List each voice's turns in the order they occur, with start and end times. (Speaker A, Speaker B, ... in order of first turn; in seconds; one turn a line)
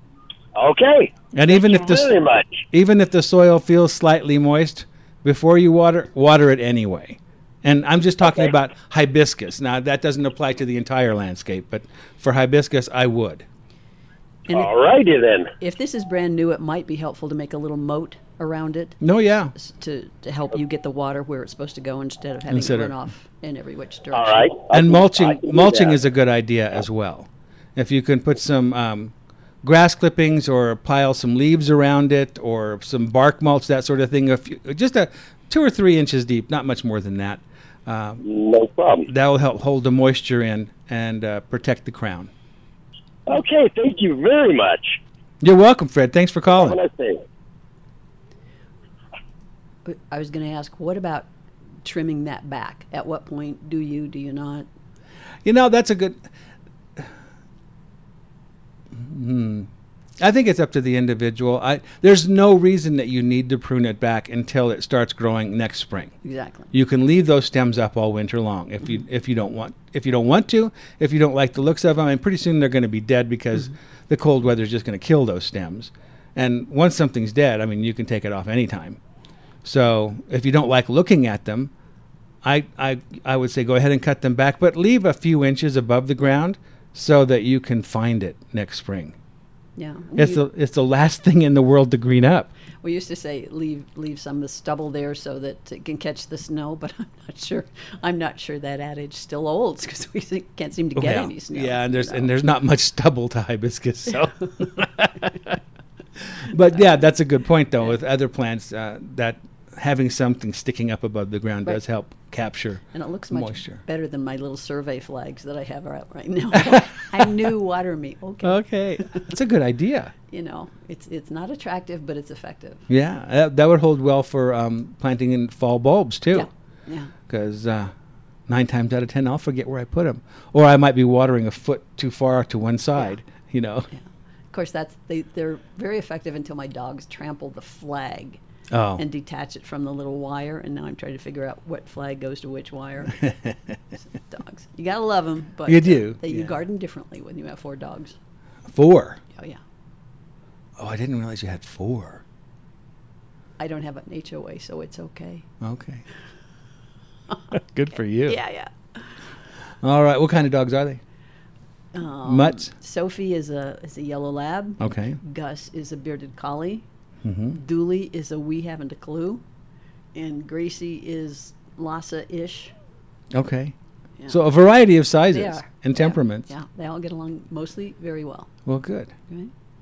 Speaker A: 0.5-2.6
Speaker B: 1.3-2.1
Speaker B: 2.7-13.4
Speaker A: 14.5-15.5
Speaker C: 15.6-19.0
Speaker B: 19.0-19.5
Speaker C: 19.5-24.5
Speaker B: 22.5-23.0
Speaker A: 24.1-25.9
Speaker B: 24.7-38.2
Speaker A: 38.2-39.1
Speaker B: 39.1-42.3
Speaker A: 43.3-45.0
Speaker B: 45.4-46.8
Speaker A: 46.5-47.2
Speaker C: 49.9-51.3
Speaker C: 51.8-54.7
Speaker B: 55.4-56.3
Speaker B: 58.9-66.1
Speaker C: 66.2-66.7
Speaker B: 66.7-79.0
Speaker B: 79.6-81.7
Speaker B: 82.4-89.2
Speaker C: 89.8-90.4
Speaker B: 90.2-92.5
Speaker C: 92.8-102.3
Speaker B: 101.0-105.6
Speaker B: 106.3-113.8
Speaker C: 112.9-119.3
Speaker B: 118.4-120.1
Speaker C: 120.3-122.8
Speaker B: 122.9-126.5
Speaker C: 126.3-127.1
Speaker B: 127.3-127.9
Speaker B: 128.5-133.9
Speaker C: 133.9-138.4
Speaker B: 138.7-139.0
Speaker C: 138.9-143.3
Speaker B: 143.2-143.6
Speaker C: 144.1-148.2
Speaker B: 145.7-146.6
Speaker B: 148.7-149.2
Speaker C: 149.3-149.6
Speaker B: 150.8-152.2
Speaker C: 153.6-155.5
Speaker B: 155.6-156.0
Speaker B: 157.5-158.4
Speaker C: 158.2-159.1
Speaker B: 159.8-161.0
Speaker C: 161.9-166.8
Speaker B: 162.2-162.7
Speaker B: 164.8-165.2
Speaker B: 167.2-167.6
Speaker C: 167.5-169.4
Speaker C: 170.1-172.7
Speaker B: 173.3-173.7
Speaker B: 174.3-176.5
Speaker C: 175.3-178.5
Speaker B: 178.7-179.1